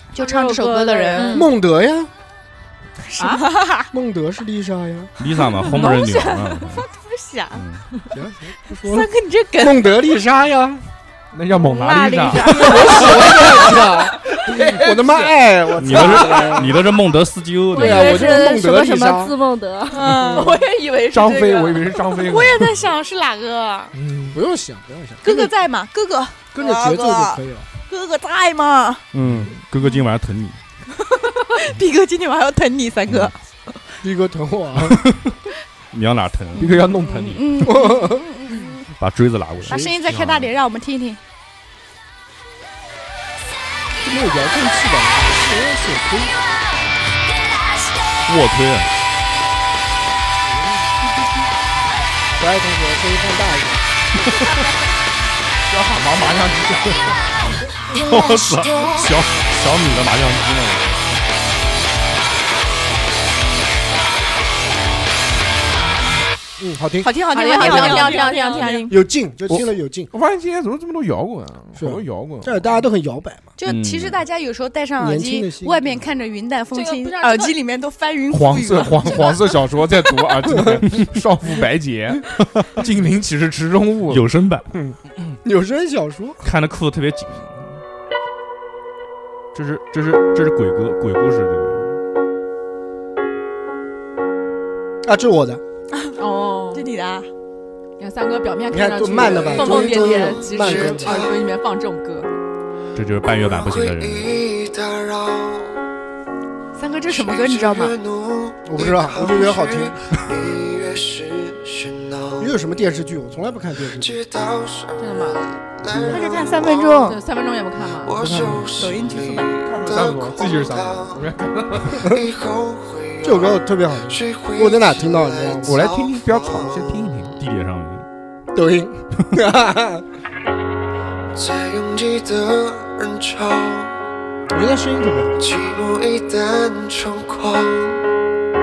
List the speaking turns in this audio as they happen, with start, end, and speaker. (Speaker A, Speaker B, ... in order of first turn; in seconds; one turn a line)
Speaker A: 0.1-1.4
Speaker B: 0.2-1.5
Speaker C: 1.3-2.1
Speaker A: 3.0-3.9
Speaker C: 3.9-5.1
Speaker D: 5.2-6.9
Speaker A: 5.5-7.6
Speaker D: 7.5-7.8
Speaker C: 8.1-10.9
Speaker A: 8.8-9.9
Speaker E: 11.3-13.1
Speaker A: 11.7-13.4
Speaker B: 11.8-12.6
Speaker C: 12.6-16.8
Speaker D: 15.8-18.4
Speaker B: 17.7-20.1
Speaker C: 17.7-19.4
Speaker F: 19.9-22.2
Speaker A: 20.0-20.5
Speaker C: 20.2-20.6
Speaker E: 21.1-22.8
Speaker A: 22.2-23.9
Speaker E: 23.9-24.4
Speaker C: 24.3-25.5
Speaker A: 25.2-29.1
Speaker C: 26.5-27.7
Speaker D: 29.1-30.6
Speaker E: 29.2-29.6
Speaker A: 31.5-33.8
Speaker C: 34.0-35.0
Speaker D: 34.8-35.3
Speaker D: 35.9-37.2
Speaker E: 36.6-37.5
Speaker A: 36.6-38.8
Speaker C: 37.6-38.3
Speaker D: 39.0-40.3
Speaker C: 39.6-40.0
Speaker A: 39.6-41.2
Speaker E: 40.1-40.5
Speaker C: 44.0-46.4
Speaker D: 48.3-48.9
Speaker C: 52.3-53.9
Speaker D: 54.3-54.6
Speaker E: 55.7-57.2
Speaker D: 57.9-61.0
Speaker E: 59.0-60.4
Speaker C: 66.6-68.1
Speaker A: 67.0-68.9
Speaker F: 67.2-69.0
Speaker B: 68.2-68.8
Speaker C: 68.9-70.1
Speaker E: 69.5-72.6
Speaker C: 71.8-73.5
Speaker A: 73.6-79.5
Speaker D: 73.7-74.2
Speaker C: 75.0-76.1
Speaker F: 76.7-77.6
Speaker E: 78.3-84.2
Speaker C: 80.6-80.8
Speaker D: 84.1-84.7
Speaker C: 84.7-86.4
Speaker D: 86.4-87.8
Speaker D: 89.5-92.0
Speaker C: 95.0-95.6
Speaker A: 95.9-96.2
Speaker F: 96.2-96.9
Speaker A: 96.7-97.3
Speaker F: 98.0-102.3
Speaker C: 98.7-101.2
Speaker G: 99.7-101.4
Speaker D: 103.0-104.4
Speaker G: 103.2-105.8
Speaker A: 106.8-107.9
Speaker G: 107.1-112.5
Speaker C: 108.7-110.0
Speaker C: 112.4-114.2
Speaker G: 113.8-117.0
Speaker F: 115.0-115.4
Speaker C: 115.9-116.5
Speaker A: 116.1-117.2
Speaker F: 117.0-118.2
Speaker G: 117.9-121.3
Speaker C: 118.2-118.6
Speaker A: 118.8-119.4
Speaker E: 119.6-122.1
Speaker G: 122.0-127.1
Speaker C: 123.2-125.9
Speaker E: 125.6-127.4
Speaker D: 127.4-128.1
Speaker C: 128.5-130.0
Speaker G: 131.3-134.0
Speaker C: 134.5-135.4
Speaker G: 135.4-138.0